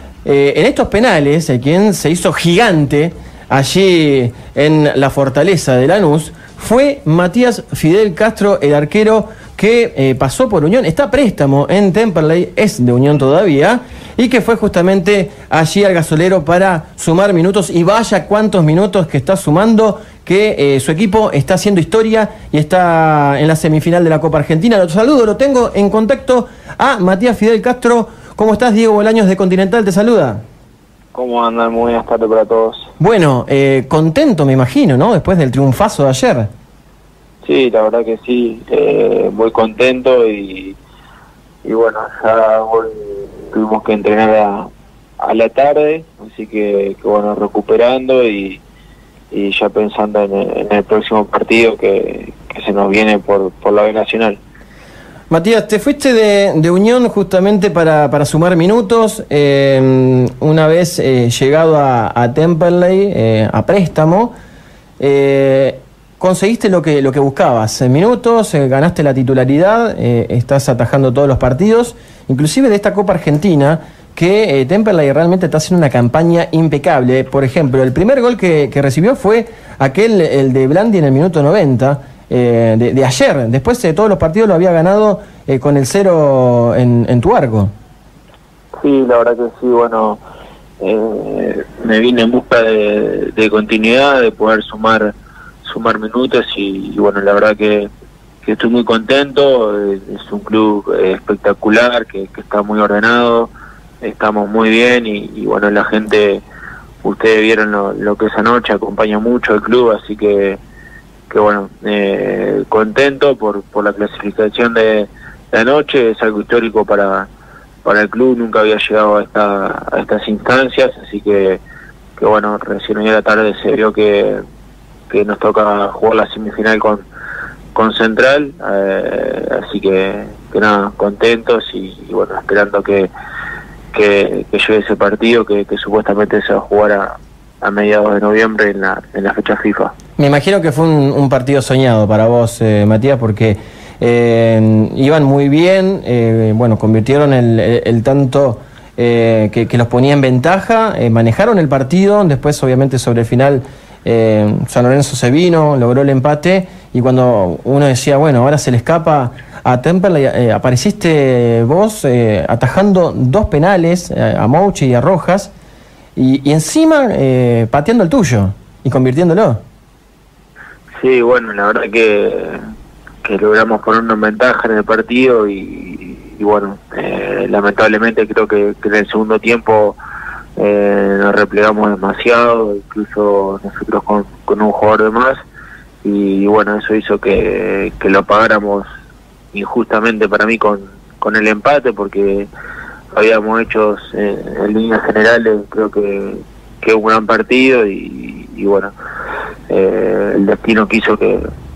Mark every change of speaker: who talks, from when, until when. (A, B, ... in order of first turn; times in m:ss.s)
0:00.2-0:30.4 A
0:31.1-0:32.9 B
0:33.0-0:36.5 A
0:37.4-0:40.8 B
0:41.6-0:44.7 B
0:45.2-0:48.6 B
0:49.3-0:54.4 B
0:55.3-1:04.3 A
1:05.0-1:27.7 A
1:28.8-1:30.2 B
1:30.8-1:37.9 B
1:38.4-1:46.4 B
1:47.0-1:50.6 B
1:51.3-1:57.3 B
1:57.8-2:01.6 B
2:02.2-2:04.4 B
2:05.1-2:07.0 B
2:07.7-2:13.1 B
2:13.9-2:19.9 B
2:20.2-2:45.5 A
2:46.2-2:49.6 A
2:51.0-2:52.6 B
2:53.2-3:00.0 B
3:00.6-3:05.4 B
3:06.0-3:08.8 B
3:09.5-3:12.5 B
3:13.1-3:18.9 B
3:19.7-3:21.4 B